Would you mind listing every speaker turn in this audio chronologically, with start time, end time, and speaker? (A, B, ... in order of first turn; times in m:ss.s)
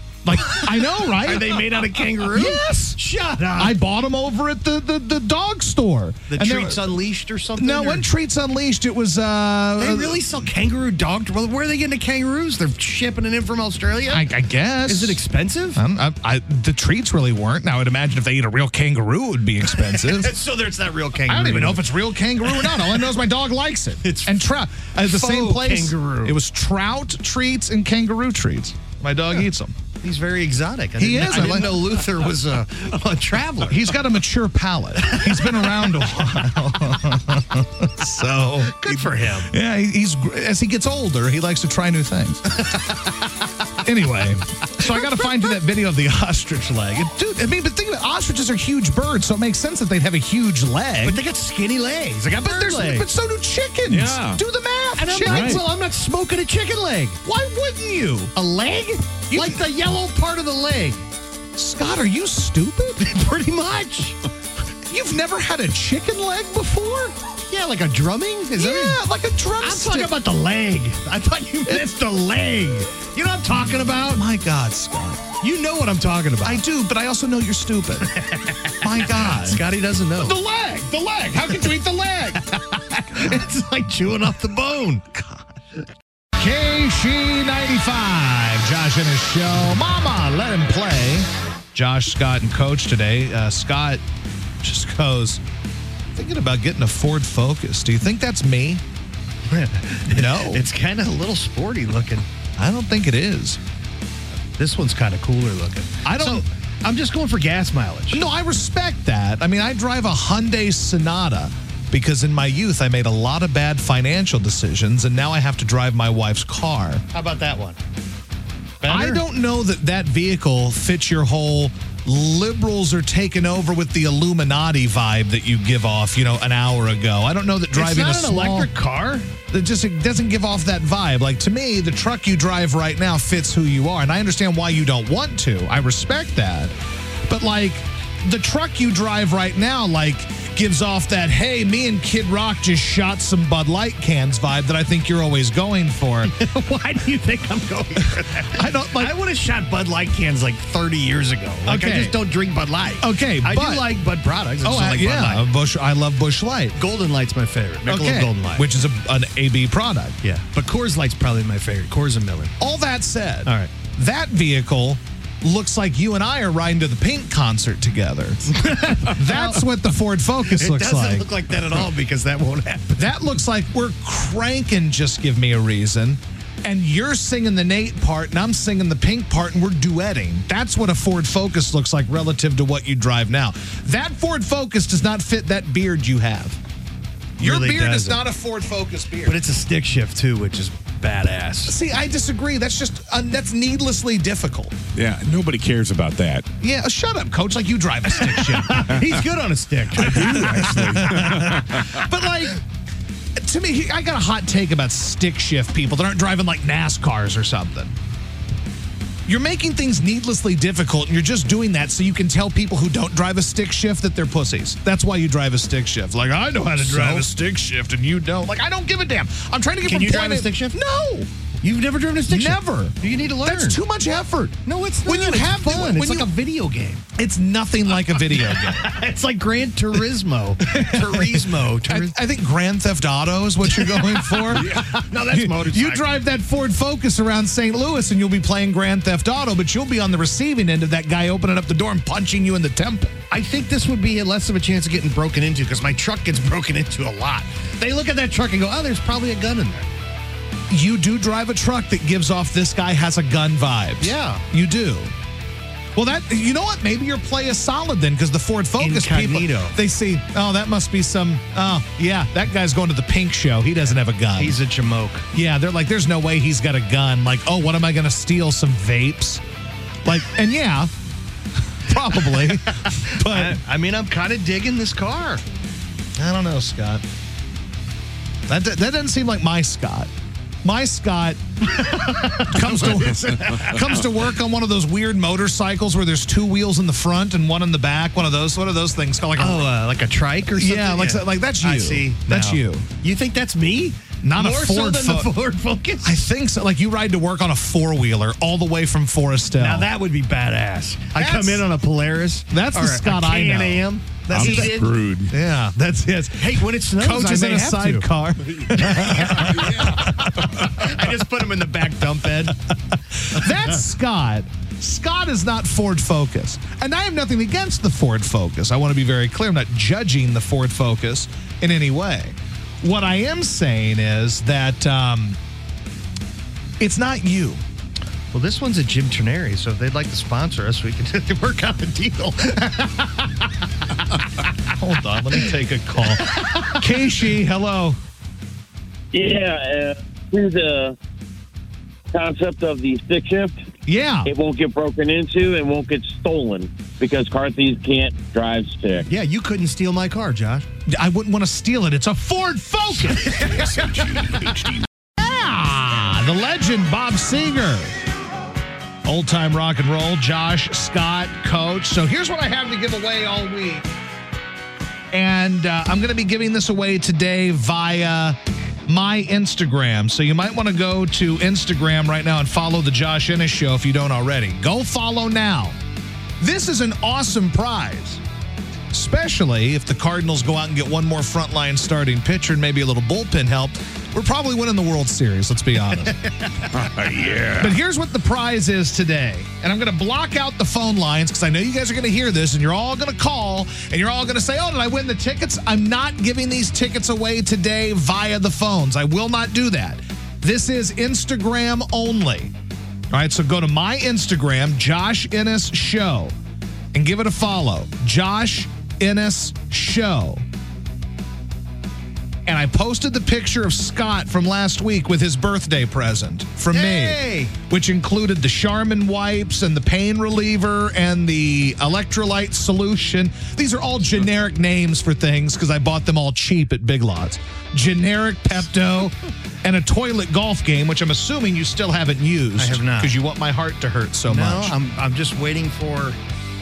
0:00.2-0:01.7 A
0:00.6-0:03.8 B
0:02.2-0:03.0 A
0:03.6-0:07.0 A
0:06.3-0:08.1 B
0:07.6-0:10.2 A
0:09.8-0:14.3 B
0:14.1-0:15.2 A
0:14.8-0:15.8 B
0:15.8-0:20.3 A
0:19.7-0:21.8 B
0:21.3-0:29.7 A
0:22.6-0:22.9 B
0:24.0-0:24.4 B
0:25.0-0:26.4 B
0:30.0-0:33.9 B
0:31.0-0:32.0 A
0:33.7-0:42.4 A
0:38.6-0:39.5 B
0:42.6-0:43.3 B
0:43.8-0:51.2 A
0:44.8-0:45.5 B
0:51.0-0:53.1 B
0:52.4-0:55.6 A
0:53.9-0:54.4 C
0:55.0-0:57.2 B
0:55.2-0:55.6 C
0:57.2-0:58.3 A
0:58.3-1:01.0 B
0:59.3-0:59.6 A
1:01.5-1:03.1 A
1:03.0-1:04.2 B
1:04.9-1:07.2 A
1:07.5-1:09.0 B
1:08.6-1:10.2 A
1:09.6-1:14.2 B
1:14.0-1:15.3 A
1:15.4-1:16.6 B
1:16.4-1:18.1 A
1:18.0-1:20.4 B
1:18.8-1:19.6 A
1:20.2-1:22.4 A
1:22.4-1:25.4 B
1:26.4-1:34.0 A
1:34.6-1:35.4 A
1:36.1-1:38.8 A
1:39.5-1:42.3 B
1:40.1-1:40.6 A
1:42.6-1:43.6 A
1:44.6-1:48.2 B
1:46.0-1:46.4 A
1:48.1-1:57.0 A
1:57.1-1:57.8 B
1:58.8-1:59.2 B
1:58.8-2:08.7 A
2:07.7-2:09.3 B
2:09.5-2:16.7 A
2:17.3-2:26.3 A
2:26.2-2:35.5 B
2:28.4-2:29.1 A
2:31.6-2:32.2 A
2:33.0-2:34.0 A
2:34.6-2:36.8 A
2:36.7-2:38.7 B
2:37.8-2:40.2 A
2:40.2-2:42.5 B
2:42.6-2:51.3 A
2:43.4-2:43.7 B
2:48.5-2:49.6 B
2:50.5-2:53.1 B
2:53.0-3:06.6 A
3:07.4-3:09.4 A
3:07.4-3:08.2 B
3:09.2-3:11.8 B
3:11.6-3:14.8 A
3:14.9-3:16.5 C
3:16.6-3:19.0 A
3:18.2-3:21.3 B
3:20.0-3:21.9 C
3:20.0-3:22.6 A
3:23.4-3:27.9 A
3:29.2-3:41.3 A
3:36.8-3:37.3 B
3:39.8-3:40.8 B
3:41.6-3:43.8 B
3:42.3-3:46.3 A
3:44.6-3:47.0 B
3:47.1-3:48.9 A
3:48.4-3:52.2 B
3:50.6-3:54.8 A
3:53.7-3:56.1 B
3:55.3-4:03.2 A
4:03.3-4:09.9 B
4:10.7-4:15.1 A
4:14.0-4:14.4 B
4:15.9-4:24.6 A
4:18.8-4:19.8 B
4:24.3-4:25.2 B
4:25.3-4:29.4 A
4:30.0-4:30.9 A
4:31.8-4:33.6 A
4:32.2-4:35.4 B
4:36.2-4:37.0 A
4:38.5-4:40.1 A
4:40.6-4:41.4 A
4:41.6-4:44.0 B
4:42.4-4:49.7 A
4:49.4-4:56.2 B
4:50.5-4:52.9 A
4:54.2-4:55.3 A
4:56.0-4:59.9 A
4:59.6-5:04.9 B
5:01.1-5:01.7 A
5:02.5-5:10.5 A
5:04.3-5:05.3 C
5:06.4-5:08.1 B
5:08.8-5:12.6 B
5:09.5-5:10.0 C
5:13.2-5:25.4 A
5:26.8-5:27.6 A
5:28.3-5:33.5 B
5:34.8-5:38.0 A
5:36.3-5:36.8 B
5:39.1-5:41.0 D
5:42.1-5:43.6 D
5:43.8-5:44.3 A
5:44.2-5:49.1 D
5:49.1-5:50.6 B
5:50.9-5:57.9 A
5:53.3-5:54.3 B
5:53.9-5:54.6 C
5:59.0-6:03.9 A
6:05.1-6:15.8 A
6:16.4-6:18.2 A
6:18.9-6:26.2 A
6:26.7-6:27.7 C
6:27.6-6:42.5 A
6:43.1-6:46.3 A
6:46.9-6:50.4 A
6:52.4-7:14.7 A
6:56.7-6:57.5 B
7:12.6-7:13.1 B
7:14.2-7:16.2 B